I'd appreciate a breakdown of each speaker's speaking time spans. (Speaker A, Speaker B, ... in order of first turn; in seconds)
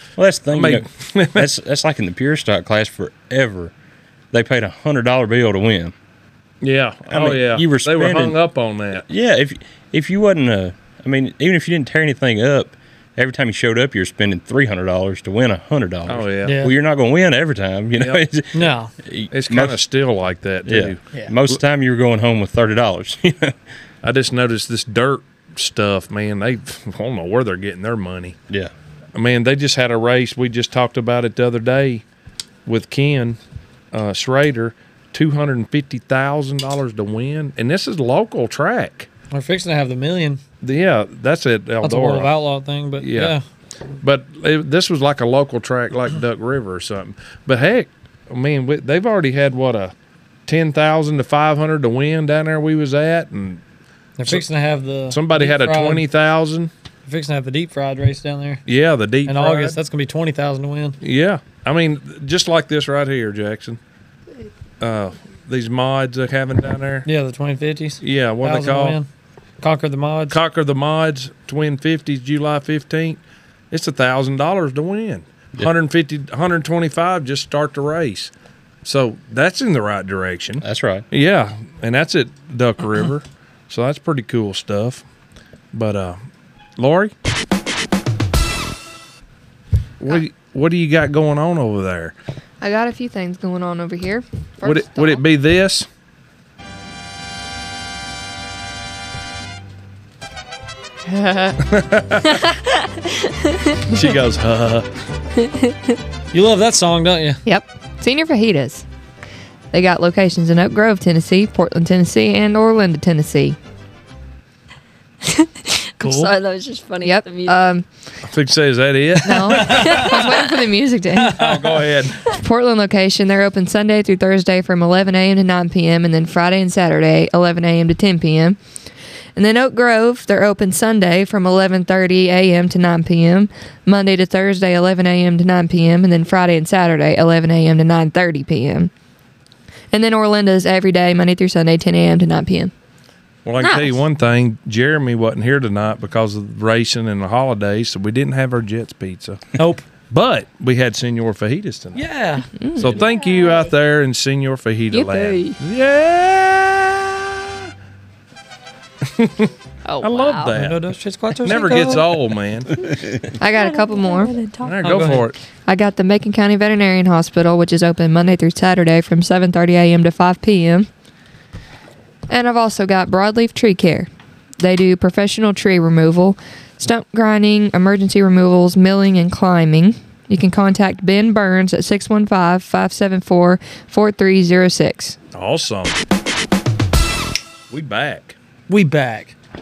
Speaker A: 0.2-3.7, 4.3-5.9, 7.1-8.4, 9.1-19.8, 20.6-23.6, 80.6-81.0
Speaker B: 0.5-1.5, 6.6-9.1, 16.1-16.6, 18.0-18.2, 19.3-21.6, 24.0-28.4, 29.1-32.0, 32.6-33.4, 33.9-39.1, 40.6-42.3, 43.0-43.3, 44.0-49.9, 50.5-53.6, 55.1-56.7, 58.6-59.8, 61.0-63.8, 64.8-67.1, 68.0-69.0, 70.3-73.2, 73.7-78.3, 78.8-85.0, 85.7-86.2, 86.8-87.1, 90.0-92.1, 94.6-95.9, 101.6-102.4, 103.9-104.9, 118.2-120.0, 121.3-122.2, 143.4-149.4, 150.1-152.0, 152.8-157.2, 159.0-160.8, 161.4-162.7, 164.6-165.3, 185.3-186.0, 187.7-188.3
Speaker C: 16.4-16.7, 18.5-18.9, 39.3-40.4, 41.8-43.4, 54.2-56.0, 57.0-58.6, 59.2-61.0, 67.0-69.1, 69.6-70.4, 106.3-107.4, 116.0-116.3, 149.6-149.8, 151.9-152.5, 160.5-162.2, 164.8-165.3, 188.7-189.3
Speaker D: 92.6-95.2, 101.1-101.6, 107.4-108.8, 109.7-113.6, 117.0-117.8, 119.2-121.4, 122.3-128.6, 129.3-138.9, 139.9-142.7, 152.6-153.0, 163.4-164.3, 165.7-170.9, 172.3-174.1, 174.6-185.2
Speaker E: 103.0-103.8, 105.4-106.0, 115.2-117.7, 119.7-120.5, 143.6-144.0, 152.9-153.7, 154.9-155.6, 159.8-160.5, 162.8-165.0